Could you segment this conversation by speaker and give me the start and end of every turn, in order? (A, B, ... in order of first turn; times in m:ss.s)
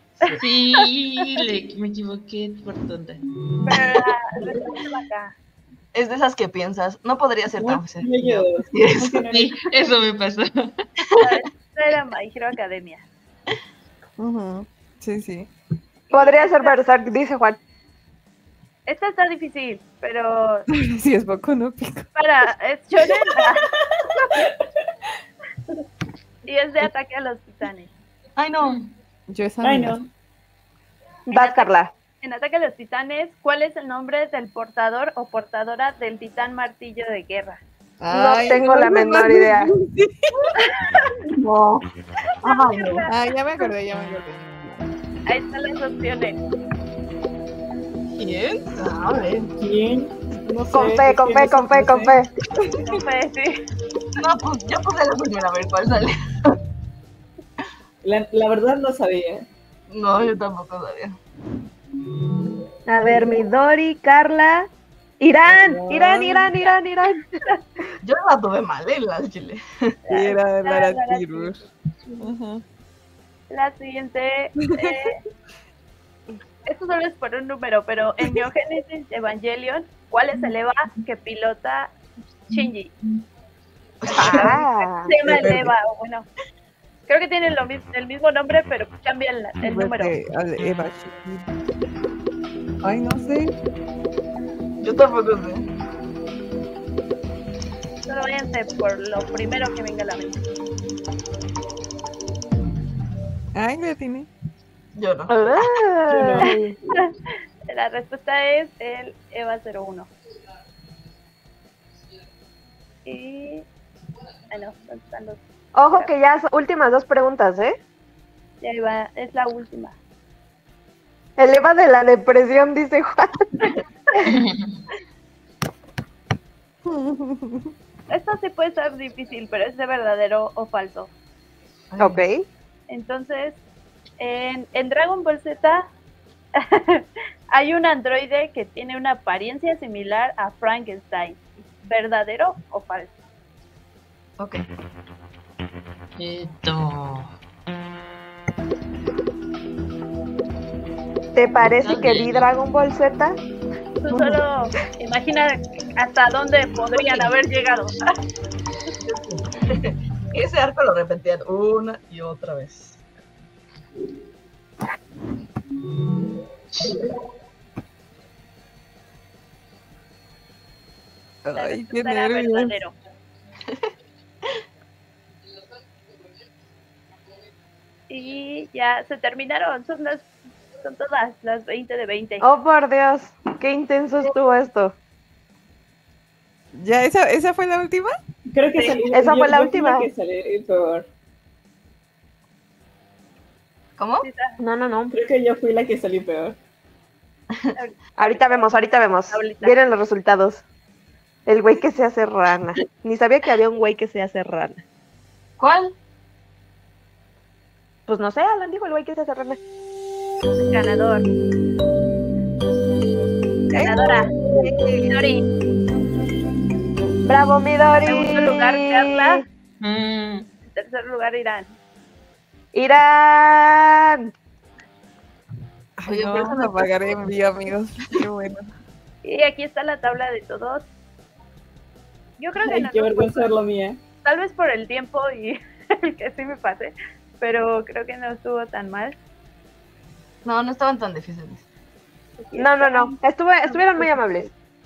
0:00.4-0:03.2 A
0:03.6-0:05.3 B
0:05.9-0:09.2 C
0:07.5-0:09.7 D
0:09.3-0:10.8 A
0:11.0-0:11.4 C
0:11.2-0:13.0 B
0:14.2-0:15.5 E
0:16.1-0:16.8 B
0:16.1-0:17.6 F
0:18.9-0:20.7 B
0:20.7-0:22.1 E
0:22.2-0:24.5 B
0:26.4-0:27.9 B
0:28.4-0:28.8 C
0:29.3-0:30.0 E
0:29.6-0:30.1 D
0:31.3-0:31.9 F
0:31.3-0:37.6 B
0:38.0-0:40.6 E
0:38.1-0:39.7 F
0:40.6-0:41.3 B
0:41.4-0:41.8 C
0:42.4-0:43.0 C
0:42.4-0:43.1 B
0:43.1-0:44.8 E
0:45.2-0:46.4 B
0:48.2-0:49.5 C
0:49.6-0:52.2 D
0:50.7-0:52.3 F
0:52.7-0:53.6 B
0:54.1-0:56.6 C
0:58.0-0:59.5 D
0:59.9-1:01.2 C
1:02.9-1:04.7 F
1:05.2-1:07.2 F
1:05.4-1:06.5 D
1:08.0-1:10.0 C
1:10.0-1:12.3 B
1:10.1-1:11.6 E
1:12.2-1:12.6 E
1:13.5-1:15.2 B
1:14.6-1:15.0 E
1:16.6-1:21.9 B
1:22.5-1:22.9 B
1:24.0-1:24.6 C
1:24.1-1:26.3 B
1:24.1-1:25.1 F
1:25.2-1:25.7 E
1:27.1-1:30.1 B
1:29.6-1:31.5 E
1:32.8-1:33.5 E
1:34.8-1:35.7 C
1:38.1-1:40.4 B
1:43.5-1:44.3 E
1:44.9-1:45.4 C
1:45.3-1:46.8 F
1:46.1-1:46.5 D
1:46.9-1:47.2 B
1:47.7-1:50.1 B
1:53.0-1:53.7 B
1:54.5-1:56.1 B
1:55.7-1:57.8 F
1:58.6-2:00.0 B
2:01.4-2:03.5 F
2:04.3-2:04.6 A
2:06.8-2:07.7 E
2:08.1-2:11.1 B
2:11.9-2:12.2 C
2:12.0-2:12.4 F
2:12.9-2:13.6 B
2:14.2-2:15.9 B
2:16.6-2:23.1 B
2:24.4-2:24.6 C
2:26.2-2:27.3 A
2:31.3-2:33.4 F
2:31.8-2:32.5 A
2:34.0-2:38.0 B
2:34.1-2:34.4 C
2:39.0-2:43.0 C
2:51.4-2:52.8 E
2:51.5-2:52.9 B
2:58.1-3:00.3 B
3:00.8-3:02.4 B
3:02.4-3:04.9 F
3:06.7-3:08.2 E
3:08.5-3:11.1 D
3:08.7-3:09.0 B
3:09.1-3:10.1 F
3:14.0-3:14.3 C
3:14.2-3:14.6 B
3:14.6-3:15.1 F
3:15.1-3:16.6 D
3:17.7-3:18.8 B
3:18.2-3:20.6 F
3:19.3-3:19.8 B
3:21.5-3:24.8 F
3:25.6-3:25.9 C
3:28.1-3:29.6 F
3:30.6-3:31.3 B
3:33.7-3:34.3 B
3:33.8-3:34.1 F
3:35.0-3:35.5 B
3:37.2-3:39.4 F
3:38.0-3:39.4 B
3:39.8-3:40.5 A
3:40.6-3:41.7 B
3:42.7-3:44.3 F
3:46.0-3:48.7 E
3:46.0-3:47.2 C
3:49.2-3:50.8 B
3:52.4-3:53.5 B
3:52.6-3:54.0 D
3:54.2-3:59.2 B
4:00.4-4:01.6 C
4:02.4-4:04.1 B
4:02.6-4:04.5 F